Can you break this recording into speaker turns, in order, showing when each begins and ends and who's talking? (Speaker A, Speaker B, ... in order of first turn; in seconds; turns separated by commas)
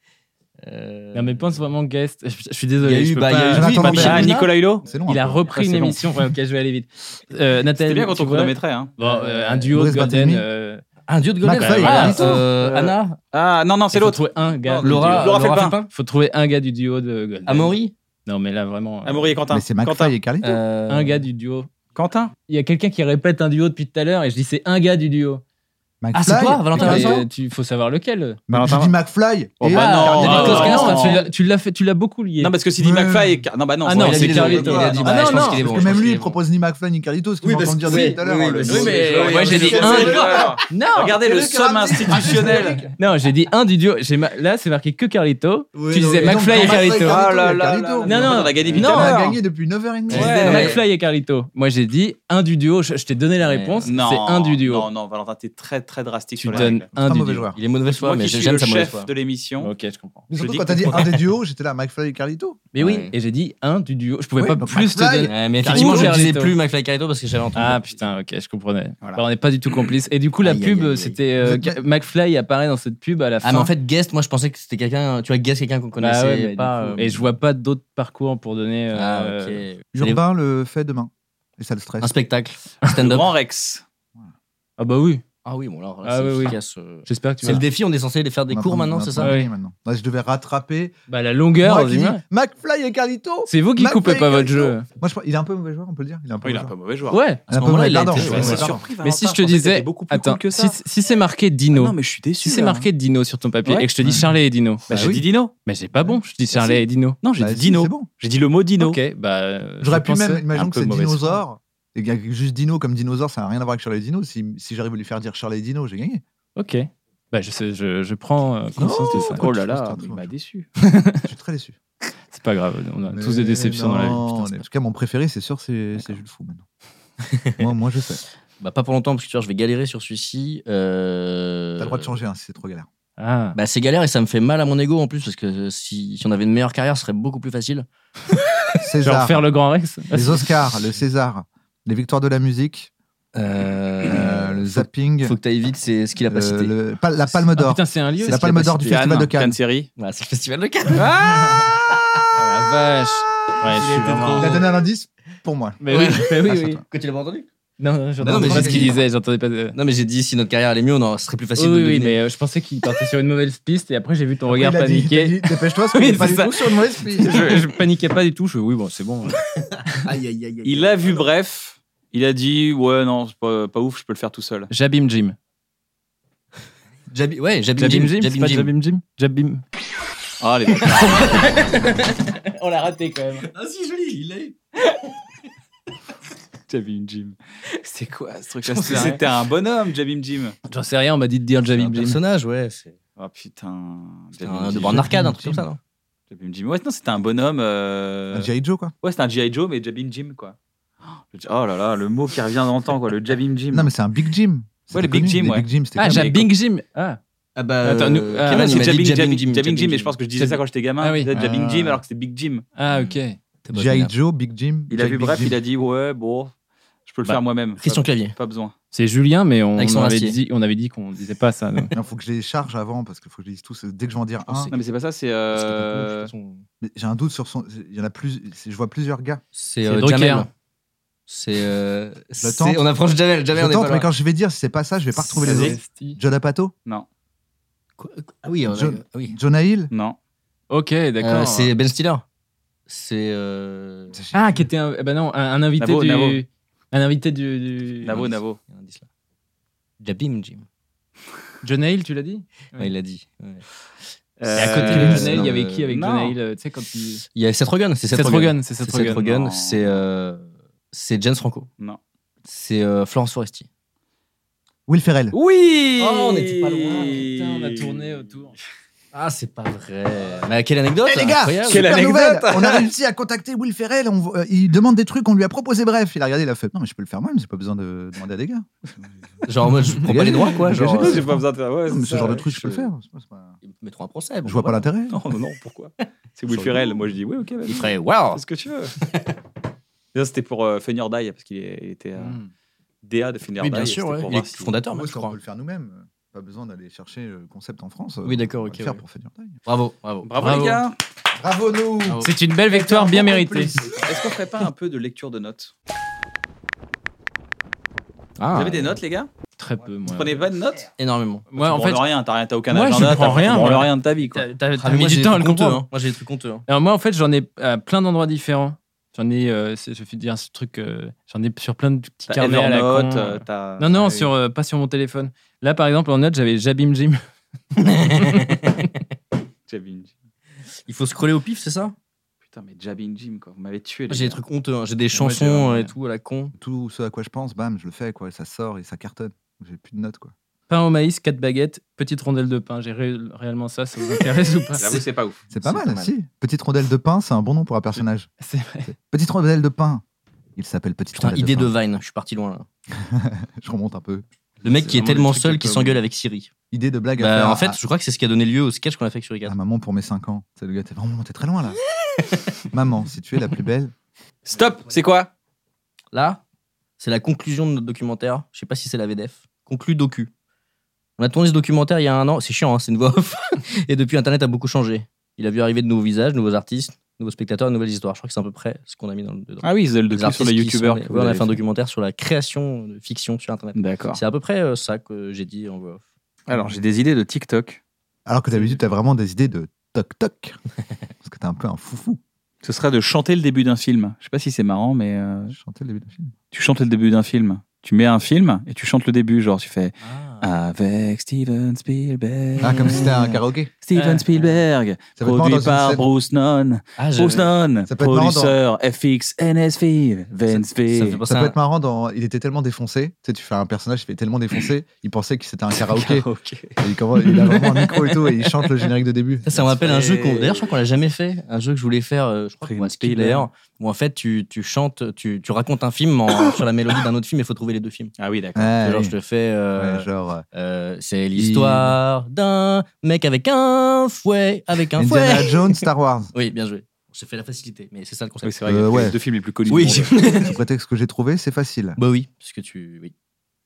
Speaker A: 0.6-1.6, Speaker B: 1.1-4.3, Speaker A: 2.8-4.5, Speaker C: 3.4-5.4, Speaker D: 3.8-4.9, Speaker B: 5.1-10.8, Speaker D: 5.5-6.0, Speaker D: 7.8-8.9, Speaker A: 9.0-9.7, Speaker C: 9.7-10.5, Speaker A: 11.1-13.2, Speaker C: 11.4-12.4, Speaker B: 11.6-12.9, Speaker D: 13.3-15.8, Speaker B: 13.9-15.4, Speaker A: 14.8-15.9, Speaker B: 15.9-19.4, Speaker A: 17.5-17.9, Speaker D: 19.1-20.2, Speaker C: 19.5-20.6, Speaker A: 20.4-21.2, Speaker B: 20.9-21.7, Speaker D: 21.9-22.3, Speaker B: 22.5-25.4, Speaker C: 26.0-27.3, Speaker A: 26.1-27.2, Speaker B: 26.8-28.4, Speaker C: 28.5-31.1, Speaker D: 28.5-28.9, Speaker D: 29.6-31.3, Speaker A: 29.7-31.3, Speaker B: 30.2-32.5, Speaker D: 32.4-35.4, Speaker C: 32.8-33.4, Speaker B: 33.8-35.7, Speaker A: 34.0-36.4, Speaker C: 34.5-40.5, Speaker A: 37.4-40.7, Speaker B: 38.7-41.3, Speaker D: 38.8-42.8, Speaker C: 41.3-42.9, Speaker B: 43.0-47.2, Speaker A: 45.7-47.2, Speaker C: 46.2-50.6, Speaker D: 47.0-49.4, Speaker B: 48.0-49.2, Speaker A: 48.6-49.1, Speaker A: 50.1-50.8, Speaker D: 50.1-50.8, Speaker B: 50.1-54.9, Speaker A: 53.4-53.9, Speaker D: 53.9-56.9, Speaker B: 56.4-57.5, Speaker C: 56.5-57.6, Speaker A: 57.5-59.1, Speaker D: 57.9-59.7, Speaker B: 59.6-60.3, Speaker C: 60.3-62.6, Speaker D: 60.4-61.1, Speaker B: 62.7-66.6, Speaker A: 62.8-63.1, Speaker C: 64.4-66.2, Speaker A: 65.2-67.8, Speaker B: 67.5-73.7, Speaker A: 70.4-71.2, Speaker C: 71.4-71.8, Speaker A: 73.4-77.3, Speaker B: 76.0-79.7, Speaker A: 78.9-80.2, Speaker C: 79.9-82.2, Speaker A: 82.0-83.3, Speaker D: 83.0-83.8, Speaker B: 84.8-85.2, Speaker A: 85.5-89.4, Speaker B: 86.0-87.7, Speaker C: 88.5-91.0, Speaker B: 89.2-89.5, Speaker B: 91.1-92.2, Speaker C: 91.6-96.7, Speaker B: 93.5-94.9, Speaker D: 96.4-97.2, Speaker B: 97.1-97.5, Speaker C: 97.5-98.8, Speaker A: 97.5-98.7, Speaker B: 98.1-104.9, Speaker D: 98.2-100.8, Speaker D: 101.7-102.9, Speaker C: 104.0-104.3, Speaker C: 104.9-105.2, Speaker D: 104.9-105.5, Speaker B: 105.7-107.2, Speaker D: 106.5-109.0, Speaker C: 107.4-108.1, Speaker B: 108.8-110.5, Speaker C: 109.8-116.2, Speaker D: 110.5-111.4, Speaker B: 116.6-119.5, Speaker C: 118.8-120.3, Speaker D: 119.1-120.7, Speaker B: 120.8-121.3, Speaker C: 121.2-121.8, Speaker B: 122.3-124.6, Speaker C: 123.1-126.6, Speaker A: 127.4-127.7, Speaker C: 127.6-128.2, Speaker A: 128.6-132.2, Speaker C: 131.8-132.9, Speaker B: 133.2-133.6, Speaker A: 133.6-137.9, Speaker C: 138.8-139.5, Speaker B: 139.0-140.5, Speaker C: 140.1-142.9, Speaker A: 143.3-146.7, Speaker C: 144.1-145.4, Speaker C: 146.3-149.6, Speaker B: 147.6-148.6, Speaker A: 148.2-148.9, Speaker D: 148.8-149.9, Speaker A: 150.0-152.2, Speaker D: 150.9-151.7, Speaker B: 152.3-154.6, Speaker A: 153.6-154.8, Speaker C: 154.4-155.8, Speaker B: 155.8-156.8, Speaker A: 155.9-157.5, Speaker C: 156.5-156.8, Speaker B: 157.8-159.8, Speaker A: 158.2-159.0, Speaker C: 158.2-159.0, Speaker A: 159.7-162.2, Speaker B: 161.6-169.4, Speaker C: 164.5-167.5, Speaker A: 169.6-171.3, Speaker D: 170.7-174.7, Speaker B: 174.7-175.4, Speaker A: 177.1-178.7, Speaker B: 177.8-179.6, Speaker D: 180.4-181.6, Speaker B: 181.1-183.5, Speaker A: 183.4-184.6, Speaker D: 186.7-187.4, Speaker B: 187.8-189.2, Speaker D: 188.6-190.6, Speaker A: 188.7-189.2, Speaker B: 190.7-192.2, Speaker A: 191.7-193.0, Speaker D: 193.2-195.1, Speaker A: 194.4-195.8, Speaker C: 194.7-195.7, Speaker D: 196.3-198.5, Speaker C: 198.3-198.9, Speaker D: 199.0-203.9, Speaker C: 203.7-206.3, Speaker D: 204.9-206.5, Speaker B: 206.0-207.2, Speaker A: 207.6-210.2, Speaker B: 207.8-208.9, Speaker D: 208.5-212.7, Speaker B: 210.4-211.3, Speaker B: 212.8-213.4, Speaker A: 212.9-214.1, Speaker C: 213.7-215.6, Speaker D: 214.9-216.5, Speaker D: 217.1-218.7, Speaker A: 217.8-218.3, Speaker B: 218.9-221.9, Speaker A: 219.8-220.4, Speaker C: 221.9-224.7, Speaker A: 224.5-224.8, Speaker D: 224.7-226.3, Speaker A: 225.5-226.6, Speaker C: 226.8-229.4, Speaker A: 229.5-230.5, Speaker B: 229.8-230.5, Speaker A: 231.3-234.1, Speaker C: 232.4-232.8, Speaker C: 233.5-236.7, Speaker B: 235.2-236.2, Speaker A: 235.5-235.8, Speaker A: 238.0-239.4, Speaker C: 238.7-239.9, Speaker D: 239.9-240.2, Speaker B: 240.7-241.7, Speaker A: 241.2-242.2, Speaker A: 242.9-244.2, Speaker C: 244.1-244.7, Speaker B: 244.3-248.2, Speaker D: 245.8-246.4, Speaker D: 248.0-248.6, Speaker A: 248.0-249.1, Speaker A: 250.0-250.7, Speaker B: 251.6-252.9, Speaker A: 252.8-253.6, Speaker D: 254.4-256.4, Speaker A: 254.5-255.9, Speaker B: 254.5-257.2, Speaker A: 257.3-261.7, Speaker B: 258.1-259.3, Speaker D: 259.2-260.0, Speaker A: 262.4-263.7, Speaker C: 264.9-265.4, Speaker D: 265.3-267.9, Speaker A: 266.0-267.3, Speaker B: 267.2-268.6, Speaker A: 269.1-271.9, Speaker C: 271.1-278.7, Speaker D: 271.7-272.9, Speaker A: 279.4-281.3, Speaker C: 279.7-283.6, Speaker D: 280.7-282.5, Speaker A: 282.3-282.9, Speaker A: 283.6-284.8, Speaker C: 284.4-285.2, Speaker D: 285.1-288.9, Speaker A: 286.5-287.0, Speaker A: 287.7-288.4, Speaker A: 289.1-289.3, Speaker D: 290.1-292.4, Speaker B: 292.2-292.5, Speaker D: 293.0-294.7, Speaker A: 293.6-295.4, Speaker C: 294.9-299.6, Speaker A: 298.2-299.0, Speaker A: 299.7-300.3, Speaker D: 300.2-301.0, Speaker B: 300.4-300.8, Speaker C: 301.4-303.9, Speaker A: 302.1-302.3, Speaker B: 302.2-303.8, Speaker D: 303.9-305.7, Speaker A: 308.4-309.0, Speaker D: 308.5-309.3, Speaker B: 309.6-310.4, Speaker D: 310.1-310.9, Speaker A: 311.0-311.5, Speaker B: 311.5-312.0, Speaker D: 311.6-314.5, Speaker B: 312.7-315.9, Speaker A: 314.8-316.7, Speaker B: 316.7-327.2, Speaker D: 322.3-324.3, Speaker B: 327.8-328.9, Speaker A: 327.9-328.6, Speaker D: 329.7-330.1, Speaker A: 330.9-331.9, Speaker D: 332.5-334.4, Speaker A: 334.1-336.5, Speaker B: 335.1-335.9, Speaker C: 336.6-340.3, Speaker B: 340.7-345.0, Speaker D: 344.8-345.4, Speaker C: 345.5-348.3, Speaker A: 345.6-346.1, Speaker B: 348.4-348.9, Speaker C: 348.9-350.0, Speaker C: 350.6-351.7, Speaker A: 351.1-352.7, Speaker C: 352.9-354.3, Speaker A: 354.6-356.5, Speaker D: 354.9-355.2, Speaker B: 354.9-356.0, Speaker C: 356.7-357.8, Speaker A: 357.2-359.6, Speaker C: 359.4-361.8, Speaker A: 362.2-362.4, Speaker C: 362.7-363.9, Speaker D: 364.5-365.3, Speaker A: 366.1-366.4, Speaker A: 367.0-370.3, Speaker A: 371.2-386.0, Speaker D: 379.6-381.6, Speaker D: 383.8-384.2, Speaker D: 386.5-387.8, Speaker C: 388.3-390.6, Speaker C: 391.2-392.2, Speaker D: 392.6-395.6, Speaker C: 395.5-396.3, Speaker D: 396.5-411.2, Speaker A: 400.0-400.5, Speaker C: 402.6-403.7, Speaker B: 403.9-404.2, Speaker C: 405.2-406.1, Speaker A: 407.0-407.5, Speaker C: 407.9-408.6, Speaker A: 410.9-411.6, Speaker C: 411.3-416.3, Speaker D: 416.0-416.8, Speaker C: 416.8-419.7, Speaker A: 419.4-428.1, Speaker D: 419.7-420.8, Speaker D: 422.6-423.5, Speaker D: 428.2-428.8, Speaker C: 428.6-429.2, Speaker A: 428.8-438.6, Speaker C: 429.8-430.4, Speaker C: 431.3-432.0, Speaker C: 434.9-436.3, Speaker D: 438.4-440.5, Speaker C: 438.6-439.2, Speaker A: 439.7-440.6, Speaker C: 440.5-442.0, Speaker A: 442.0-443.1